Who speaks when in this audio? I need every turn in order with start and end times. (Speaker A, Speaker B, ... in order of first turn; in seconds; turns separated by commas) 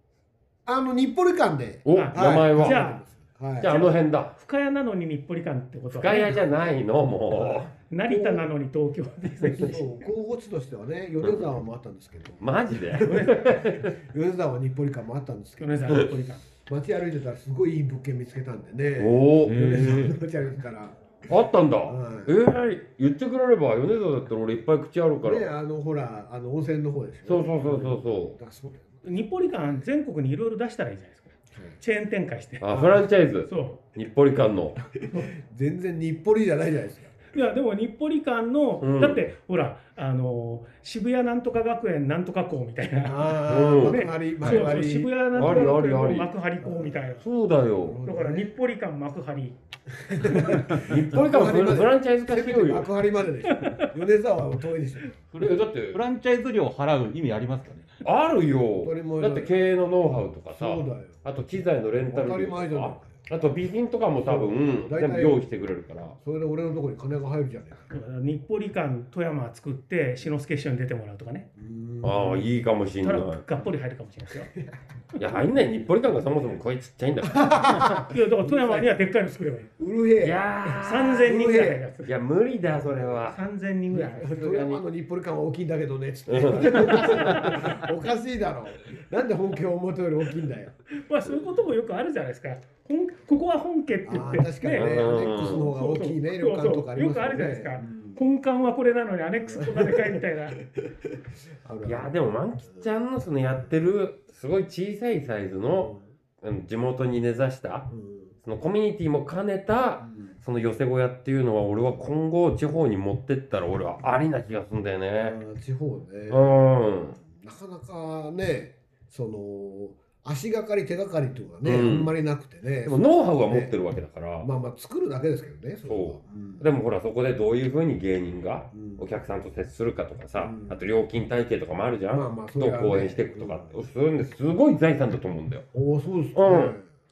Speaker A: 0.7-3.8, Speaker B: 1.9-2.9, Speaker C: 1.9-3.0, Speaker B: 3.6-4.3, Speaker C: 3.6-6.4, Speaker B: 5.9-7.7, Speaker A: 7.3-8.5, Speaker C: 7.9-9.9, Speaker A: 9.4-21.3, Speaker B: 12.4-13.9, Speaker C: 15.6-16.4, Speaker B: 19.0-19.9, Speaker D: 19.5-20.2, Speaker B: 21.3-25.5, Speaker A: 21.9-22.4, Speaker A: 25.2-28.9, Speaker B: 27.3-28.4, Speaker C: 29.0-32.7, Speaker B: 32.6-34.8, Speaker A: 32.7-33.1, Speaker C: 33.5-33.8, Speaker A: 35.2-37.1, Speaker C: 37.3-47.2, Speaker B: 38.8-39.2, Speaker A: 43.0-45.7, Speaker B: 43.5-44.1, Speaker D: 44.4-44.7, Speaker B: 45.3-46.3, Speaker A: 46.6-47.1, Speaker B: 47.2-48.0, Speaker A: 47.8-48.5, Speaker C: 48.1-49.6, Speaker A: 50.0-55.1, Speaker B: 50.5-52.9, Speaker C: 53.5-53.9, Speaker D: 55.3-57.9, Speaker B: 55.4-56.0, Speaker B: 58.0-66.2, Speaker A: 58.8-59.5, Speaker A: 60.5-61.2, Speaker A: 62.1-63.2, Speaker A: 64.2-65.4, Speaker A: 66.2-67.9, Speaker C: 67.9-71.5, Speaker A: 71.6-72.5, Speaker B: 72.0-73.4, Speaker C: 73.0-74.5, Speaker B: 75.2-78.1, Speaker A: 77.3-78.9, Speaker C: 78.0-79.7, Speaker A: 79.8-81.8, Speaker B: 80.2-83.4, Speaker C: 80.8-82.1, Speaker A: 82.8-83.2, Speaker C: 83.3-84.6, Speaker A: 83.9-90.8, Speaker B: 84.2-84.8, Speaker B: 86.3-87.4, Speaker C: 86.8-87.7, Speaker C: 90.9-100.6, Speaker A: 94.0-98.2, Speaker B: 94.8-95.7, Speaker A: 99.4-100.2, Speaker A: 100.8-102.1, Speaker B: 101.8-107.9, Speaker A: 105.8-106.0, Speaker A: 107.9-108.3, Speaker B: 108.4-115.4, Speaker A: 110.0-110.3, Speaker A: 115.2-116.6, Speaker B: 116.3-117.2, Speaker A: 117.1-123.7, Speaker B: 121.6-122.1, Speaker B: 122.8-124.5, Speaker A: 124.4-126.6, Speaker B: 125.9-135.7, Speaker A: 128.7-129.1, Speaker A: 130.4-130.8, Speaker A: 132.1-133.8, Speaker A: 135.7-136.9, Speaker B: 136.3-136.8